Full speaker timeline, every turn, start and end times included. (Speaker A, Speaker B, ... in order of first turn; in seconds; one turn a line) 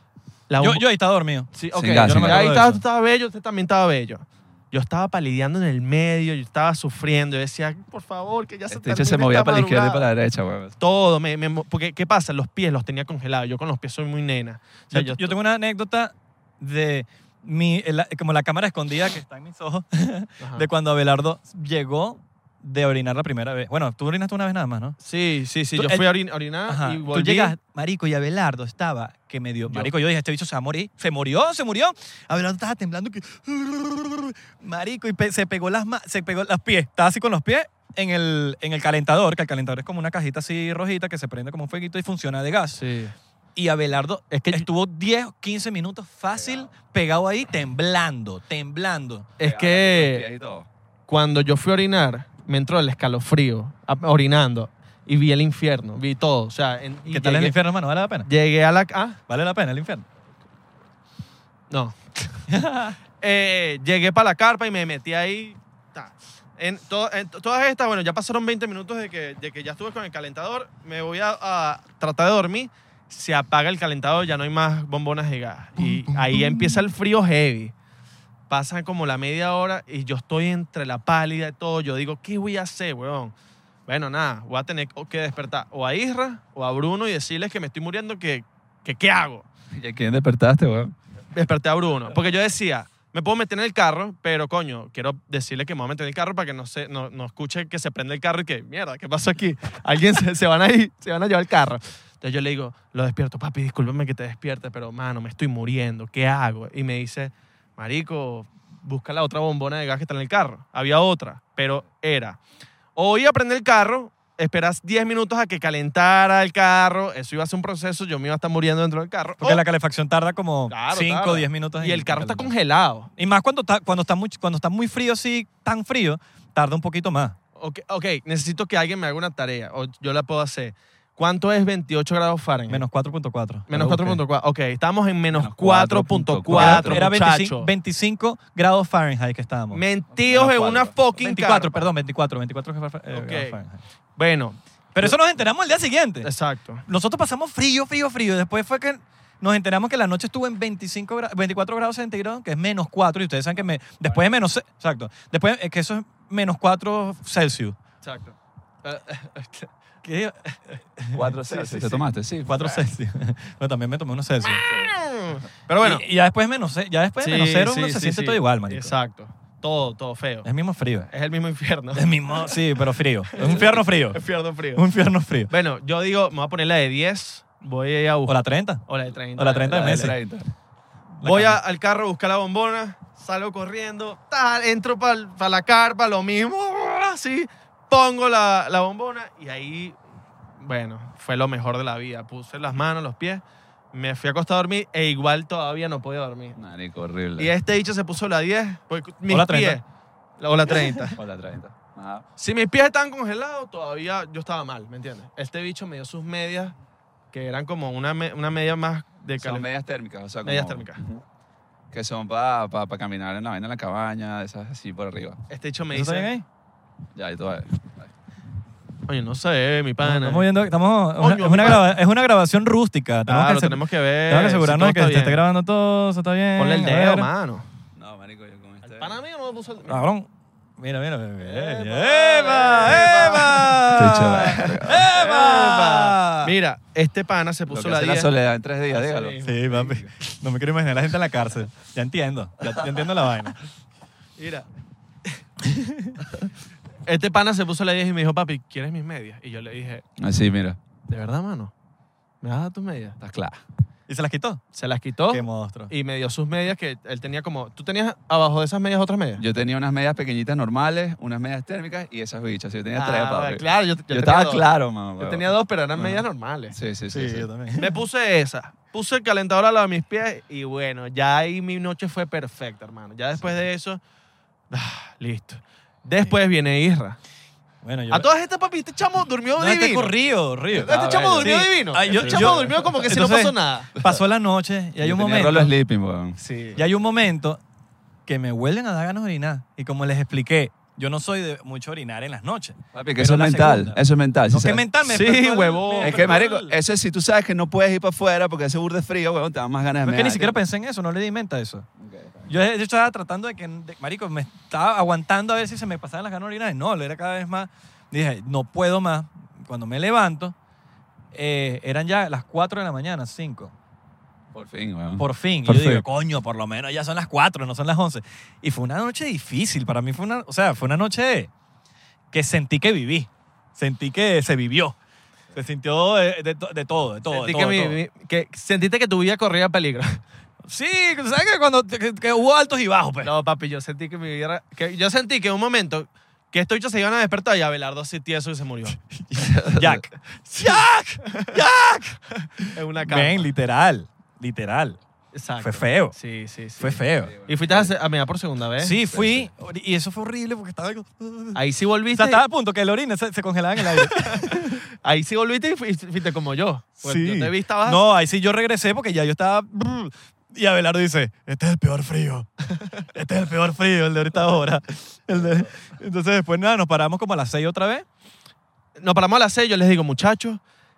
Speaker A: 0.5-0.8
Speaker B: 0.6-2.8
Speaker A: 1.5-10.1
Speaker C: 1.7-2.6
Speaker C: 8.7-10.8
Speaker A: 10.8-15.4
Speaker B: 14.9-25.0
Speaker A: 20.4-20.7
Speaker A: 25.0-27.6
Speaker B: 25.8-26.1
Speaker B: 26.7-42.8
Speaker A: 42.7-43.1
Speaker B: 43.6-49.3
Speaker A: 44.3-44.7
Speaker C: 46.4-46.7
Speaker A: 49.4-50.3
Speaker C: 49.4-50.7
Speaker A: 51.1-57.5
Speaker B: 57.1-58.3
Speaker A: 58.2-59.2
Speaker B: 59.3-60.0
Speaker A: 61.7-62.4
Speaker B: 62.5-63.0
Speaker A: 63.2-77.7
Speaker B: 76.1-76.8
Speaker A: 78.5-83.3
Speaker A: 83.9-89.5
Speaker C: 89.7-90.9
Speaker A: 91.3-112.4
Speaker A: 113.0-119.6
Speaker B: 119.4-122.5
Speaker A: 120.7-123.1
Speaker B: 123.2-127.4
Speaker A: 127.6-132.8
Speaker B: 132.7-134.2
Speaker A: 133.7-137.7
Speaker C: 135.3-137.1
Speaker B: 136.5-139.8
Speaker A: 139.7-141.8
Speaker C: 140.2-141.0
Speaker B: 141.2-143.8
Speaker A: 143.1-143.6
Speaker A: 144.2-145.1
Speaker B: 144.9-146.3
Speaker A: 146.2-146.8
Speaker B: 146.9-157.8
Speaker A: 158.0-159.7
Speaker B: 160.0-161.2
Speaker C: 161.1-162.6
Speaker A: 161.5-162.8
Speaker B: 162.5-164.7
Speaker A: 164.5-166.1
Speaker B: 165.8-168.9
Speaker A: 167.2-170.5
Speaker B: 170.4-171.1
Speaker A: 171.1-172.6
Speaker B: 171.9-174.2
Speaker C: 173.4-173.8
Speaker A: 173.4-174.8
Speaker B: 174.8-175.5
Speaker A: 175.5-180.1
Speaker B: 178.3-178.8
Speaker B: 179.4-180.2
Speaker C: 179.7-180.5
Speaker B: 181.2-181.6
Speaker A: 181.2-190.0
Speaker A: 190.6-196.6
Speaker C: 196.6-197.5
Speaker A: 197.4-199.8
Speaker B: 199.3-199.8
Speaker A: 200.4-201.2
Speaker C: 201.1-202.2
Speaker A: 202.4-206.7
Speaker A: 207.3-209.7
Speaker C: 209.4-211.2
Speaker A: 210.4-211.0
Speaker C: 211.9-215.4
Speaker A: 215.5-216.3
Speaker B: 215.9-216.4
Speaker C: 217.2-218.1
Speaker A: 219.1-220.5
Speaker B: 220.0-227.3
Speaker A: 221.2-221.9
Speaker A: 223.3-225.4
Speaker A: 226.6-227.7
Speaker C: 227.9-229.2
Speaker A: 228.8-230.0
Speaker B: 229.9-236.5
Speaker A: 231.4-238.3
Speaker C: 233.9-235.1
Speaker C: 237.7-239.4
Speaker A: 238.9-240.0
Speaker B: 239.4-243.6
Speaker A: 244.4-244.7
Speaker B: 245.6-246.2
Speaker A: 247.1-250.0
Speaker C: 250.2-250.8
Speaker A: 251.1-251.7
Speaker A: 252.4-253.2
Speaker C: 253.2-253.6
Speaker B: 254.1-254.6
Speaker A: 254.7-259.4
Speaker B: 255.3-255.9
Speaker C: 259.4-266.2
Speaker A: 263.0-264.6
Speaker A: 265.2-266.8
Speaker C: 266.7-267.5
Speaker B: 267.1-268.0
Speaker A: 267.8-274.0
Speaker A: 274.7-277.2
Speaker B: 277.8-278.3
Speaker A: 278.1-280.1
Speaker B: 279.6-285.7
Speaker C: 280.7-281.5
Speaker A: 280.7-283.9
Speaker C: 282.1-282.9
Speaker C: 285.0-286.4
Speaker A: 286.4-286.8
Speaker B: 286.8-287.6
Speaker B: 288.3-296.7
Speaker C: 292.9-294.9
Speaker A: 295.1-296.4
Speaker C: 296.0-300.6
Speaker B: 300.0-301.9
Speaker C: 302.0-302.4
Speaker B: 302.5-310.6
Speaker B: 311.3-313.7
Speaker C: 314.5-316.0
Speaker B: 315.2-321.5
Speaker B: 322.3-325.0
Speaker B: 325.5-328.0
Speaker A: 327.3-330.2
Speaker B: 330.7-333.3
Speaker A: 333.2-339.0
Speaker B: 339.1-345.0
Speaker C: 339.4-340.0
Speaker A: 340.5-341.6
Speaker A: 342.4-343.5
Speaker A: 345.3-349.0
Speaker B: 345.6-346.2
Speaker B: 346.8-347.4
Speaker C: 347.2-347.9
Speaker B: 348.8-351.6
Speaker C: 349.1-349.5
Speaker A: 351.6-352.4
Speaker B: 352.1-354.8
Speaker A: 353.9-358.0
Speaker B: 357.0-362.5
Speaker B: 363.0-368.1
Speaker A: 369.0-370.6